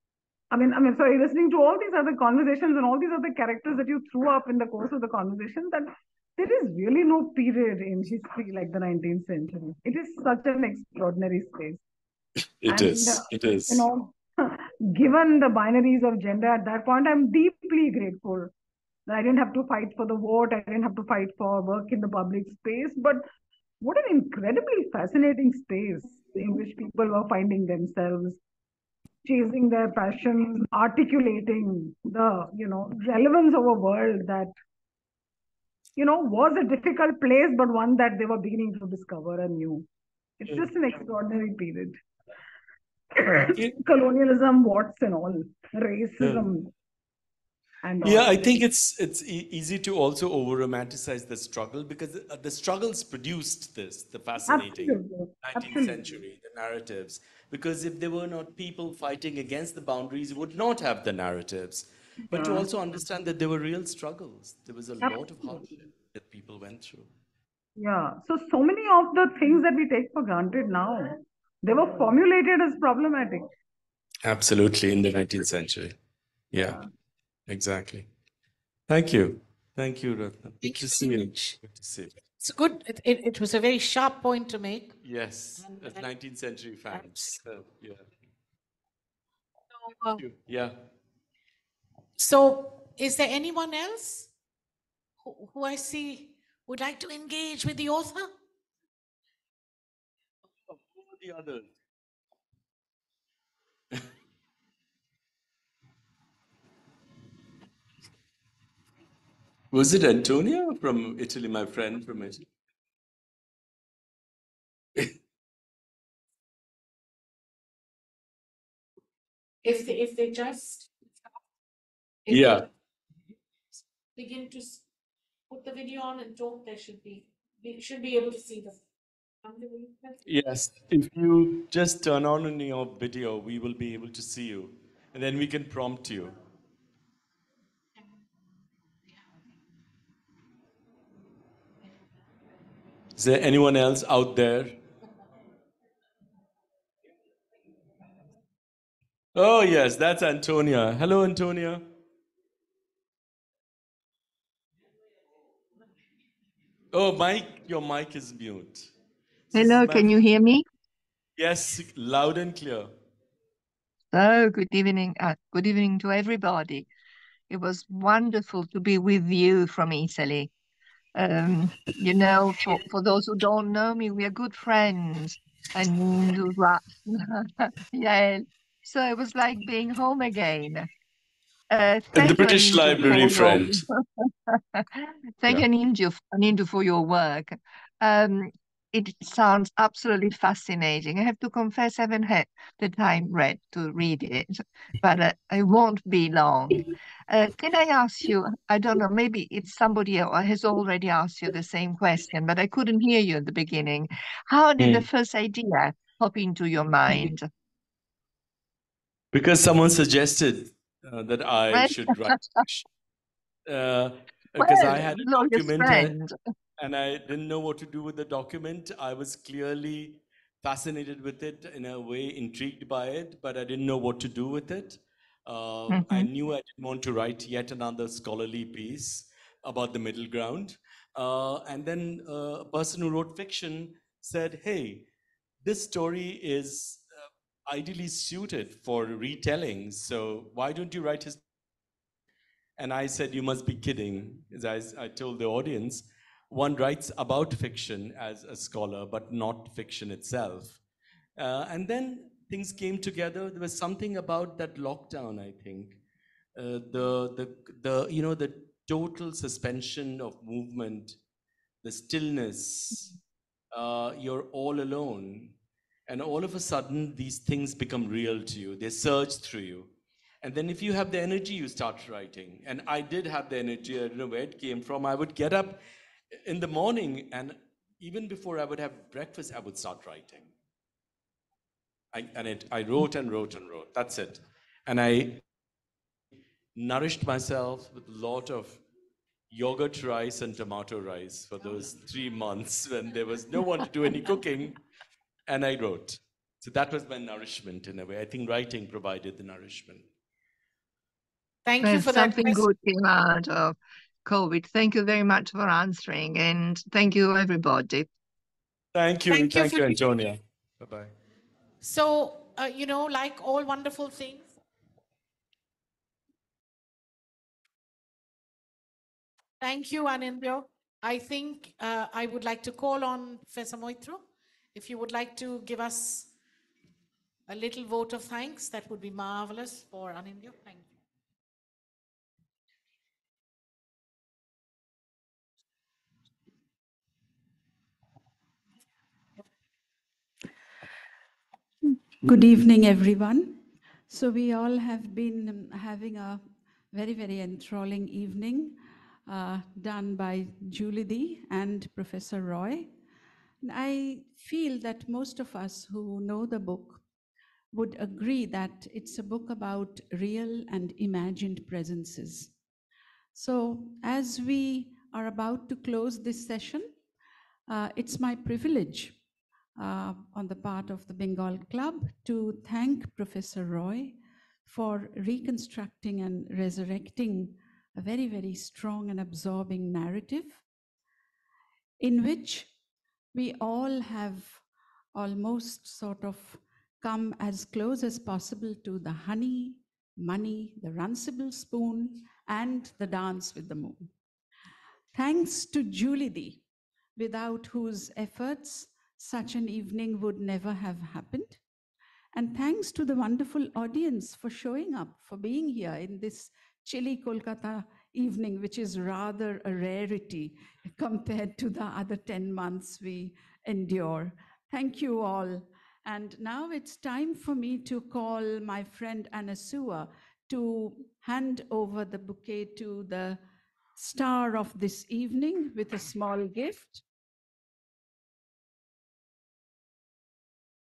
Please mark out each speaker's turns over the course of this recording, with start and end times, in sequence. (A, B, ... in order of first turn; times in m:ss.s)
0:00.5-0:11.8 A
0:12.6-0:13.8 B
0:12.7-0:18.5 A
0:19.1-0:23.2 A
0:23.8-0:28.4 A
0:29.2-0:34.5 A
0:36.0-0:39.8 A
0:40.4-0:42.0 A
0:43.1-0:46.7 A
0:47.8-0:48.4 A
0:48.0-1:07.1 B
0:54.4-0:56.2 A
1:02.3-1:02.7 A
1:05.0-1:05.7 A
1:07.8-1:13.5 A
1:14.2-1:16.0 B
1:16.5-1:16.8 B
1:17.5-1:18.1 B
1:18.9-1:22.2 B
1:20.6-1:21.6 C
1:22.4-1:25.0 C
1:25.0-1:28.1 B
1:25.6-1:26.1 C
1:26.9-1:27.4 C
1:29.7-1:30.2 C
1:30.2-1:30.8 B
1:32.2-1:34.3 C
1:35.2-1:38.3 C
1:40.6-1:41.7 B
1:49.7-1:52.4 B
1:59.6-2:00.9 C
2:02.2-2:02.7 C
2:02.3-2:02.7 B
2:04.2-2:04.8 C
2:05.5-2:08.8 C
2:09.4-2:10.2 C
2:10.2-2:16.3 B
2:23.1-2:24.8 B
2:29.3-2:31.8 B
2:36.9-2:38.9 B
2:39.5-2:40.1 B
2:39.5-2:40.6 D
2:41.4-2:42.9 B
2:44.1-2:46.9 D
2:47.5-2:50.5 D
2:51.2-3:00.9 D
3:01.7-3:27.5 D
3:02.1-3:03.8 B
3:29.3-3:32.9 B
3:31.7-3:32.6 D
3:33.7-3:36.2 B
3:34.6-3:36.3 D
3:36.8-3:55.1 B
3:45.9-3:46.3 D
3:55.6-4:01.4 B
4:02.8-4:10.8 B
4:11.4-4:16.0 B
4:16.5-4:21.2 B
4:21.8-4:23.1 B
4:23.7-4:25.6 B
4:26.1-4:35.8 B
4:36.3-4:40.5 B
4:42.1-4:45.4 B
4:46.7-4:48.8 B
4:49.5-4:54.8 B
4:55.5-5:00.1 B
5:01.6-5:02.6 C
5:01.8-5:08.1 D
5:08.9-5:11.1 B
5:09.3-5:10.0 C
5:11.8-5:14.6 C
5:19.6-5:26.3 C
5:27.5-5:30.9 C
5:42.2-5:52.9 E
5:53.6-5:57.0 E
5:57.7-6:02.5 E
6:03.3-6:06.9 E
6:07.7-6:09.2 E
6:09.8-6:20.6 E
6:22.0-6:22.7 E
6:23.3-6:24.6 E
6:25.1-6:34.1 E
6:35.1-6:36.6 E
6:37.2-6:41.6 E
6:42.3-7:03.4 E
7:04.0-7:07.0 E